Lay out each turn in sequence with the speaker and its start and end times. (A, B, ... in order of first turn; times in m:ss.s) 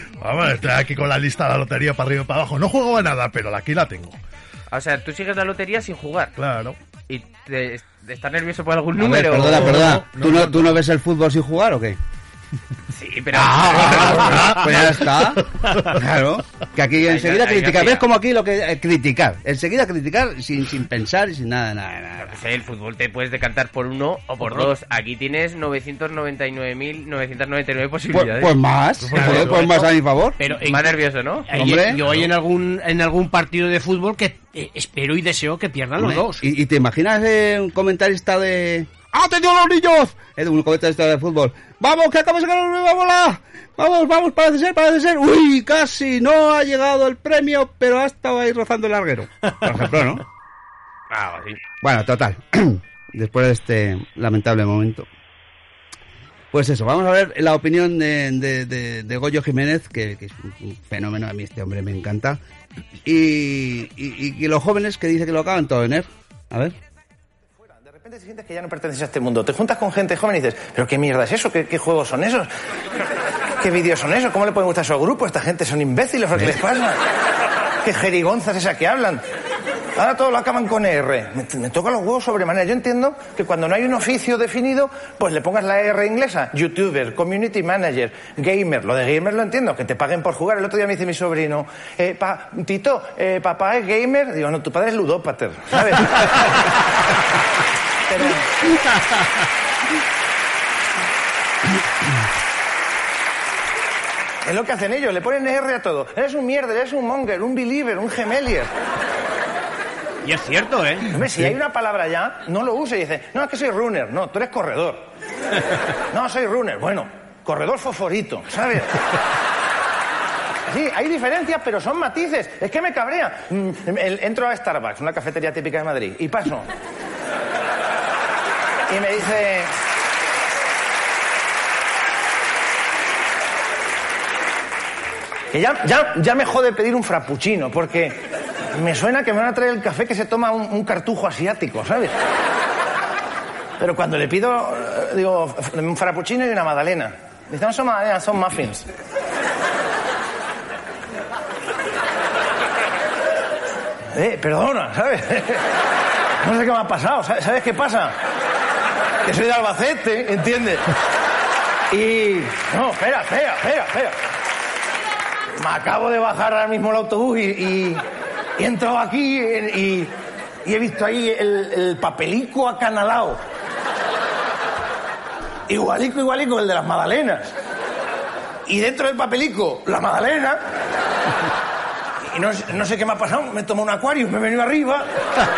0:00.2-0:04.2 A
0:04.7-0:06.4 B
0:06.4-0:06.8 A
0:07.1-0:10.0 B
0:09.0-0:12.0 C
0:09.5-0:10.8 A
0:12.9-0:14.8 B
0:13.3-0:22.4 C
0:13.6-0:15.9 A
0:17.0-0:18.0 B
0:22.2-0:28.6 B
0:24.4-0:24.7 D
0:28.1-0:30.4 C
0:29.0-0:29.7 A
0:29.2-0:29.9 D
0:30.4-0:36.4 D
0:30.6-0:31.5 B
0:31.5-0:32.0 C
0:36.0-0:50.2 C
0:51.1-0:51.6 B
0:51.8-0:55.1 C
0:56.5-1:02.4 C
1:03.0-1:06.8 C
1:07.8-1:12.5 E
1:13.6-1:17.0 E
1:17.8-1:19.2 E
1:20.0-1:36.6 E
1:38.1-1:38.5 E
1:44.4-1:48.7 E
1:50.2-1:51.1 D
1:51.1-1:55.0 E
1:56.1-1:59.0 E
2:00.7-2:06.7 E
2:08.9-2:09.7 E
2:15.5-2:18.2 E
2:18.7-2:22.2 E
2:23.8-2:28.9 E
2:34.1-2:35.7 E
2:36.4-2:38.2 E
2:39.2-2:40.9 E
2:41.9-2:44.2 E
2:45.6-2:48.0 E
2:48.6-2:50.1 E
2:50.6-2:53.4 E
2:55.7-2:57.5 E
2:58.7-3:00.6 E
3:02.2-3:05.1 E